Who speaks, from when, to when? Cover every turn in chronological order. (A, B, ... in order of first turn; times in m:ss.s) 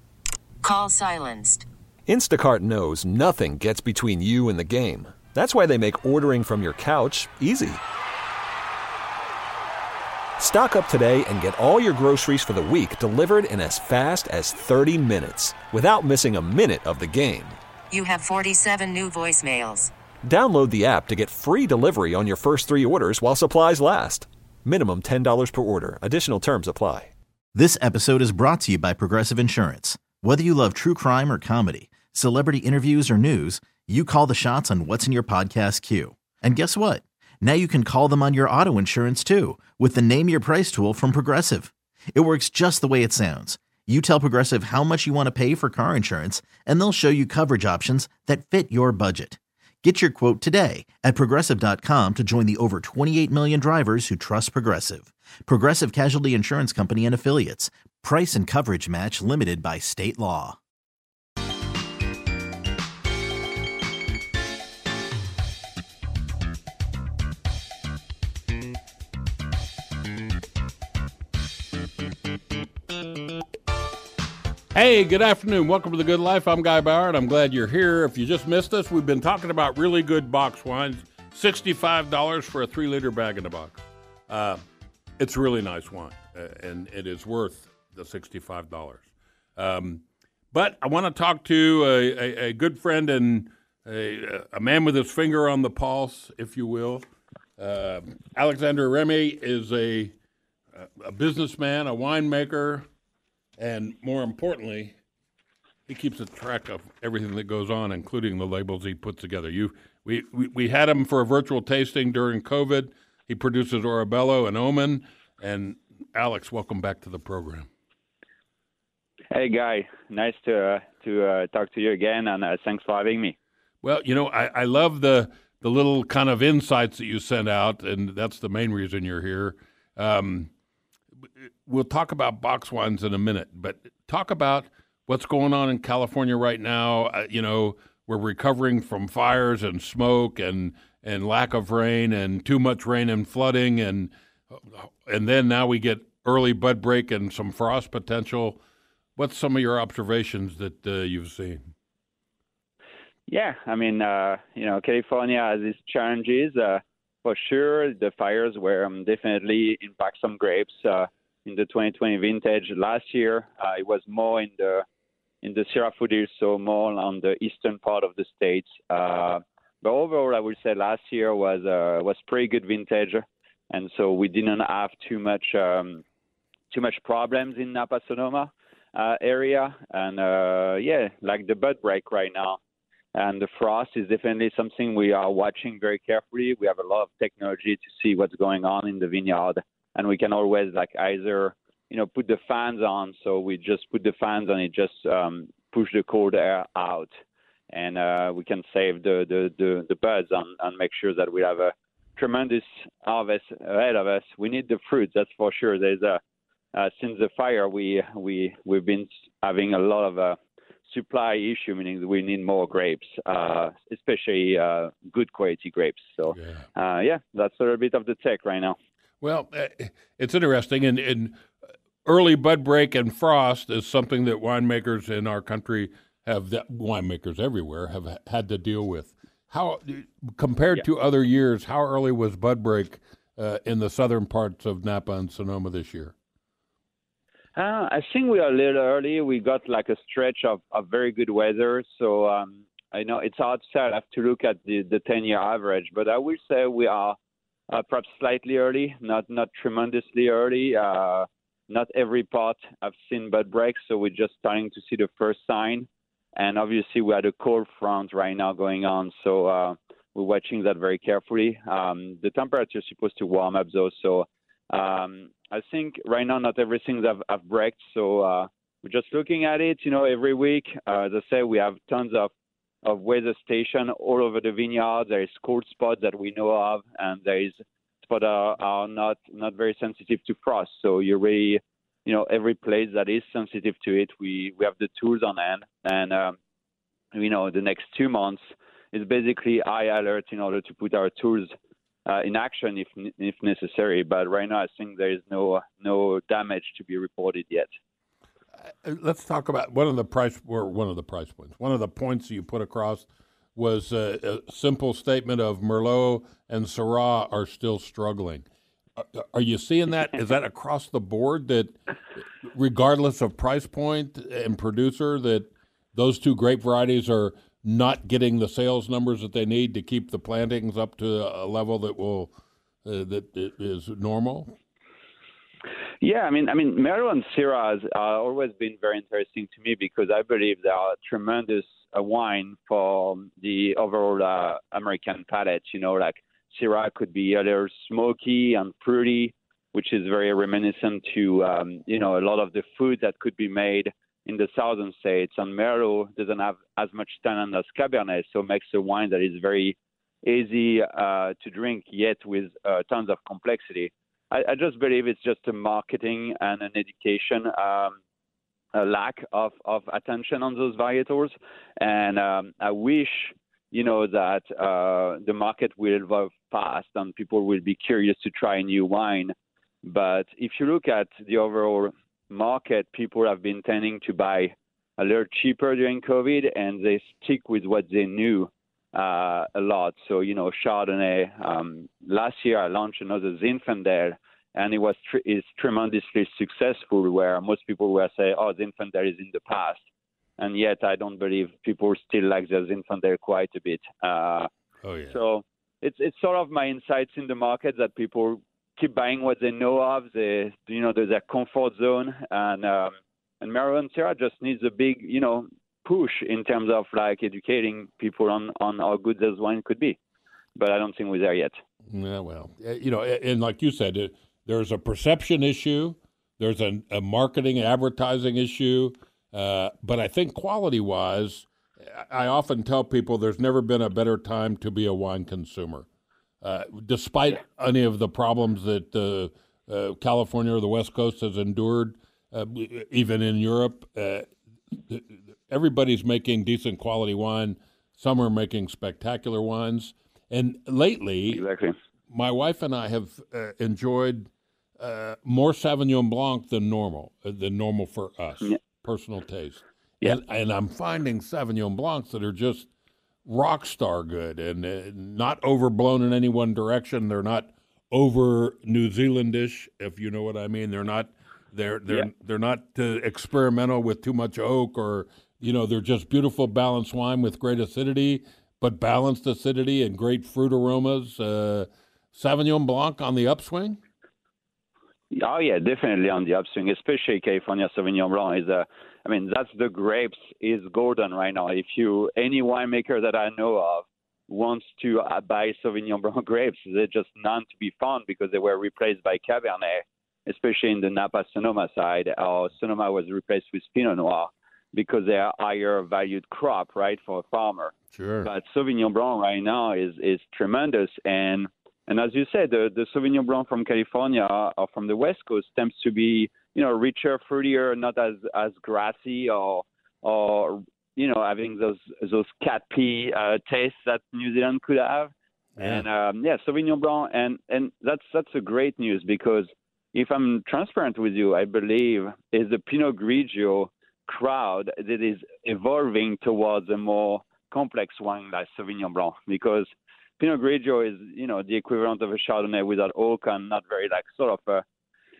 0:00.6-0:01.6 A
0:02.1-0:07.7 B
0:10.4-0:17.5 B
0:17.9-0:19.9 A
0:20.3-0:27.1 B
0:27.5-1:00.6 C
1:14.7-1:24.6 D
1:25.2-1:37.1 D
1:37.6-1:40.1 D
1:40.7-1:42.8 D
1:43.6-1:45.0 D
1:45.9-1:57.7 D
1:59.3-2:03.3 E
2:03.8-2:10.5 D
2:11.4-2:28.6 D
2:29.2-2:31.7 D
2:33.3-2:44.8 E
2:45.4-2:56.0 E
2:56.7-3:02.6 E
3:03.1-3:17.1 E
3:17.7-3:26.2 E
3:26.7-3:38.8 E
3:36.3-3:36.6 D
3:39.2-3:41.4 D
3:42.0-3:56.1 D
3:57.5-4:07.2 E
4:07.7-4:32.3 E
4:32.8-4:46.4 E
4:47.1-4:48.4 E
4:48.9-4:51.5 E
4:52.0-4:57.7 E
4:58.7-5:08.4 D
5:09.0-5:22.3 D
5:22.8-5:24.5 D
5:26.0-5:58.0 E
5:58.7-6:29.8 E
6:30.4-6:34.5 E
6:34.8-6:35.2 D
6:35.1-6:50.0 E
6:50.6-6:51.6 E
6:51.9-7:05.8 D
7:06.4-7:14.3 D
7:14.9-7:21.4 D
7:21.3-7:21.7 E
7:22.1-7:32.7 D
7:33.2-7:53.8 D
7:55.1-8:49.7 E
8:17.9-8:18.3 D
8:35.6-8:35.8 D
8:50.2-8:54.6 E